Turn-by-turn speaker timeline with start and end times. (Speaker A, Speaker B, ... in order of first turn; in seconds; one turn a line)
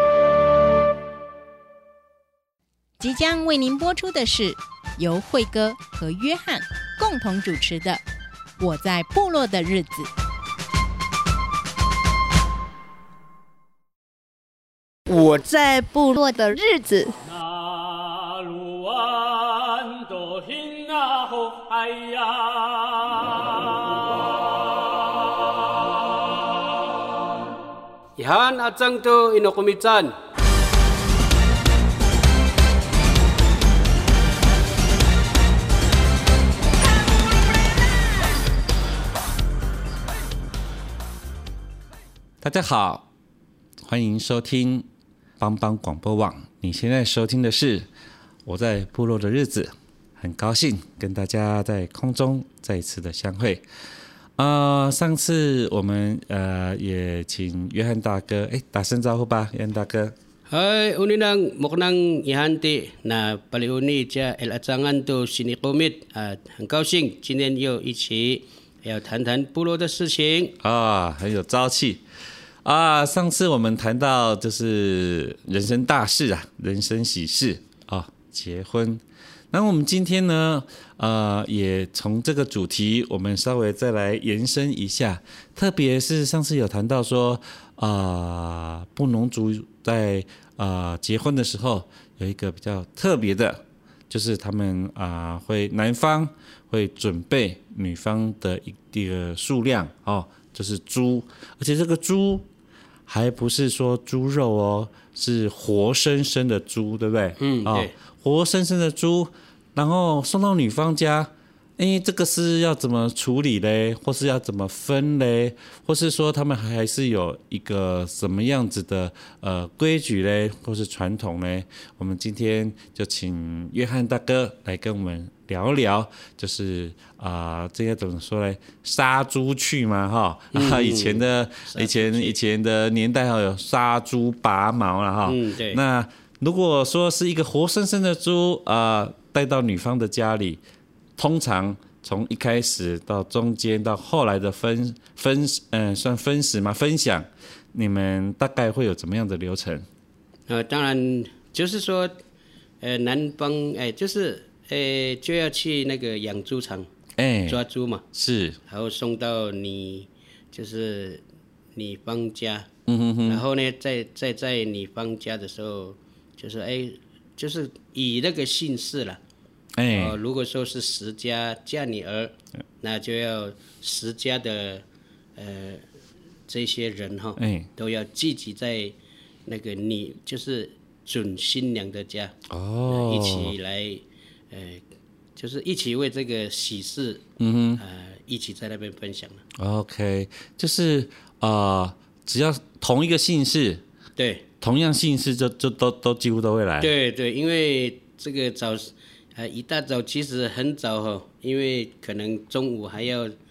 Speaker A: 3.0-8.0
Speaker A: 8.6-10.1
Speaker B: 15.1-17.1
Speaker C: 18.4-18.7
Speaker C: 19.8-22.4
Speaker D: 28.2-30.1
Speaker E: 42.4-43.1
Speaker E: 43.8-44.9
Speaker E: 45.4-47.9
Speaker E: 48.5-53.6
Speaker E: 54.4-60.1
Speaker D: 60.5-70.5
Speaker E: 70.6-72.0
Speaker E: 72.6-102.5
Speaker E: 103.1-140.6
Speaker D: 107.4-107.9
Speaker D: 130.5-132.4
Speaker D: 135.2-135.8
Speaker E: 141.2-149.8
Speaker D: 150.5-152.1
Speaker D: 152.8-156.9
Speaker E: 157.2-157.6
Speaker D: 157.5-158.0
Speaker E: 158.1-158.6
Speaker D: 158.7-161.2
Speaker D: 161.7-162.7
Speaker E: 162.9-163.4
Speaker D: 163.2-169.2
Speaker E: 169.8-170.2
Speaker D: 169.9-174.8
Speaker D: 175.4-175.8
Speaker D: 176.5-178.9
Speaker E: 177.4-177.7
Speaker D: 179.5-182.3
Speaker E: 182.5-183.5
Speaker D: 182.9-184.8
Speaker D: 185.4-187.2
Speaker E: 187.4-187.8
Speaker D: 187.8-189.4
Speaker E: 189.6-193.8
Speaker D: 194.2-194.4
Speaker E: 194.6-196.9
Speaker D: 196.8-203.3